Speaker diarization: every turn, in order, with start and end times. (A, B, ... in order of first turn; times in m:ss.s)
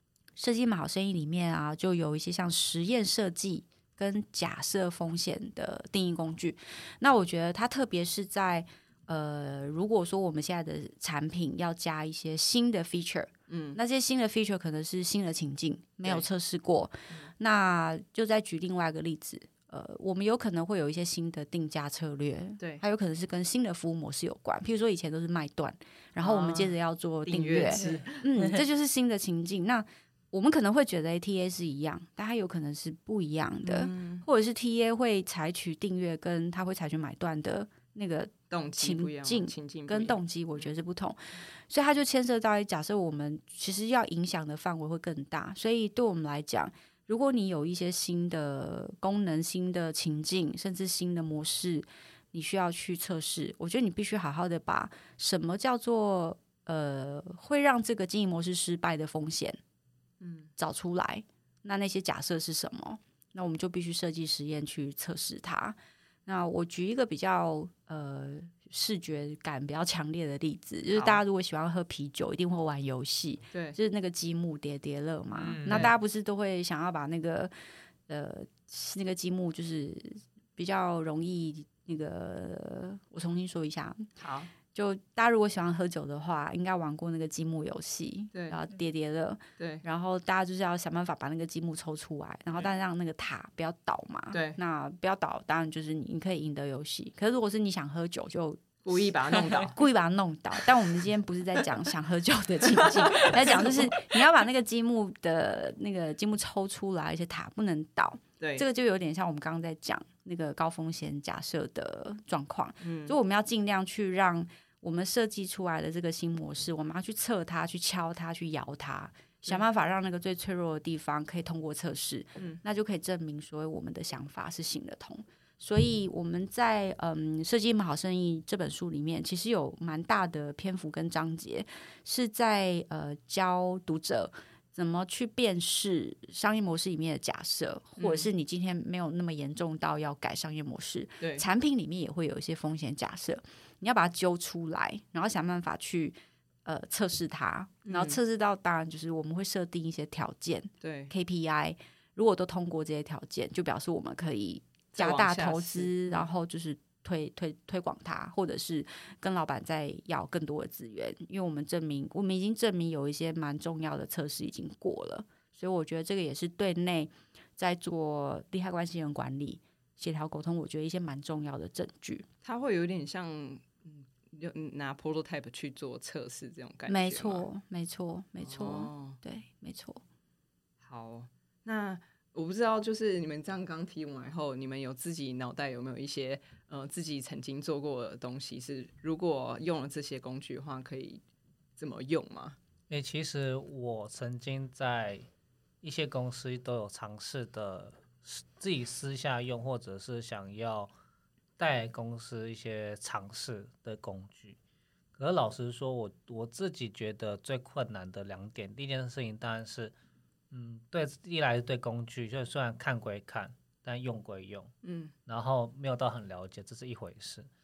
0:00.4-0:59.6 A
0:13.5-0:13.8 B
0:26.2-0:28.6 B
0:33.6-0:34.2 B
0:38.5-0:40.7 B
1:00.2-1:00.5 B
1:00.6-1:17.5 A
1:10.9-1:11.2 B
1:15.4-1:15.9 C
1:15.6-1:15.9 B
1:18.1-1:24.1 A
1:24.2-1:24.5 B
1:24.7-2:52.2 A
1:29.6-1:29.8 B
1:34.3-1:34.6 B
1:38.8-1:39.8 B
1:43.0-1:43.3 B
1:52.8-1:53.1 B
2:18.0-2:18.3 B
2:27.8-2:28.2 B
2:30.8-2:31.1 B
2:34.9-2:36.3 B
2:52.4-2:57.4 B
2:56.9-3:00.0 A
2:58.4-2:59.2 B
3:00.8-3:11.2 B
3:11.8-3:12.6 B
3:12.9-3:15.2 C
3:15.8-3:20.9 C
3:21.6-3:24.6 C
3:25.2-3:29.9 C
3:30.5-3:34.7 C
3:34.8-3:35.1 B
3:35.3-3:37.5 C